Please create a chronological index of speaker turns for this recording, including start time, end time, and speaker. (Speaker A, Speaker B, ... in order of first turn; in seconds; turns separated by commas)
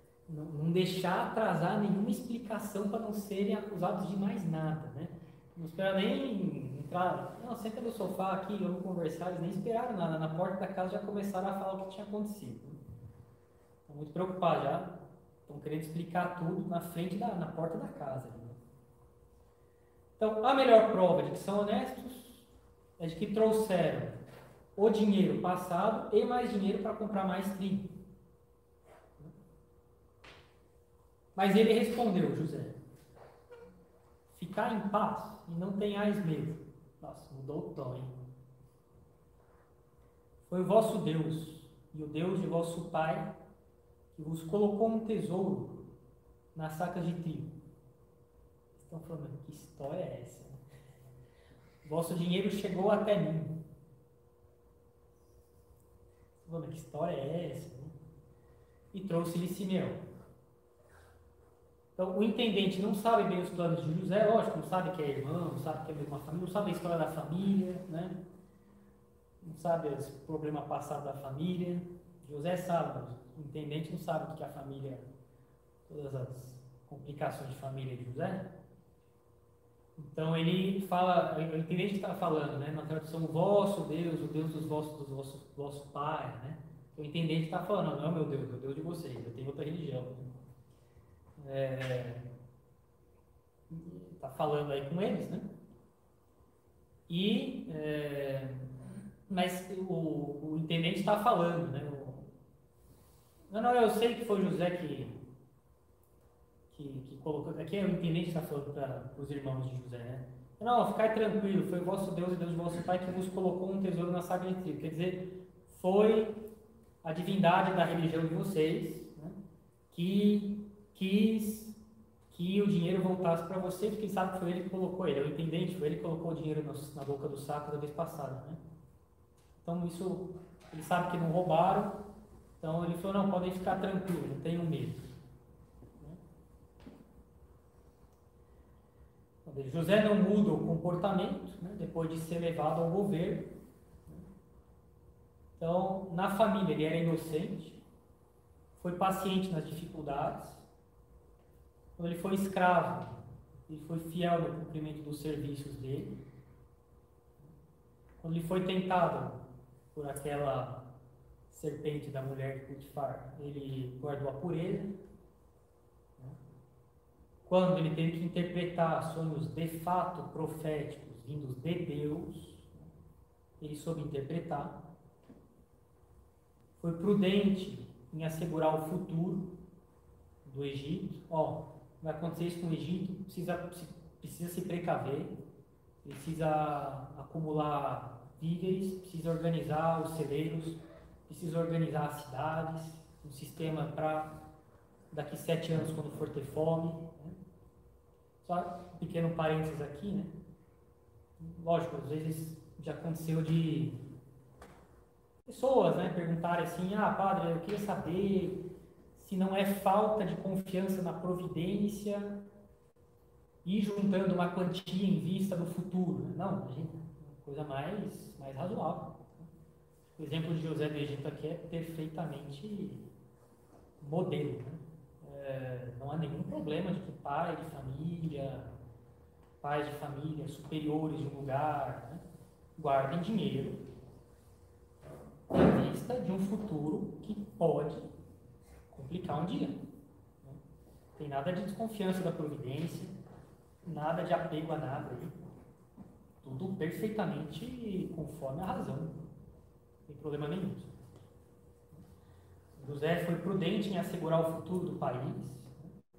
Speaker A: 0.3-12.8, Speaker A: 13.9-14.9, Speaker A: 15.5-18.6, Speaker A: 20.2-24.2, Speaker A: 24.8-27.9, Speaker A: 31.4-32.8, Speaker A: 34.3-38.1, Speaker A: 40.5-43.3, Speaker A: 44.1-45.8, Speaker A: 46.5-47.5, Speaker A: 48.8-50.6, Speaker A: 51.8-53.6, Speaker A: 56.4-57.9, Speaker A: 58.9-60.0, Speaker A: 62.0-68.2, Speaker A: 69.4-75.1, Speaker A: 75.9-78.5, Speaker A: 80.0-90.2, Speaker A: 91.4-92.2, Speaker A: 93.7-95.5, Speaker A: 97.1-98.7, Speaker A: 99.3-102.3, Speaker A: 103.5-105.2, Speaker A: 106.7-116.4, Speaker A: 117.0-119.3, Speaker A: 119.9-121.8, Speaker A: 122.3-128.6, Speaker A: 129.6-132.0, Speaker A: 132.6-135.1, Speaker A: 139.4-143.5, Speaker A: 145.6-147.8, Speaker A: 148.8-150.7, Speaker A: 152.0-156.2, Speaker A: 158.2-159.4, Speaker A: 159.9-160.8, Speaker A: 161.5-164.9, Speaker A: 167.5-172.8, Speaker A: 173.6-174.8, Speaker A: 176.8-179.5, Speaker A: 180.4-185.3, Speaker A: 186.0-194.4, Speaker A: 195.1-197.4, Speaker A: 198.4-200.3, Speaker A: 201.4-204.0, Speaker A: 205.5-212.4, Speaker A: 213.7-219.5, Speaker A: 220.2-223.1, Speaker A: 224.0-228.7, Speaker A: 229.6-232.2, Speaker A: 232.8-233.8, Speaker A: 235.5-238.1, Speaker A: 238.9-239.8, Speaker A: 241.2-243.1, Speaker A: 243.8-245.3, Speaker A: 246.4-249.2, Speaker A: 250.1-251.0, Speaker A: 252.8-255.8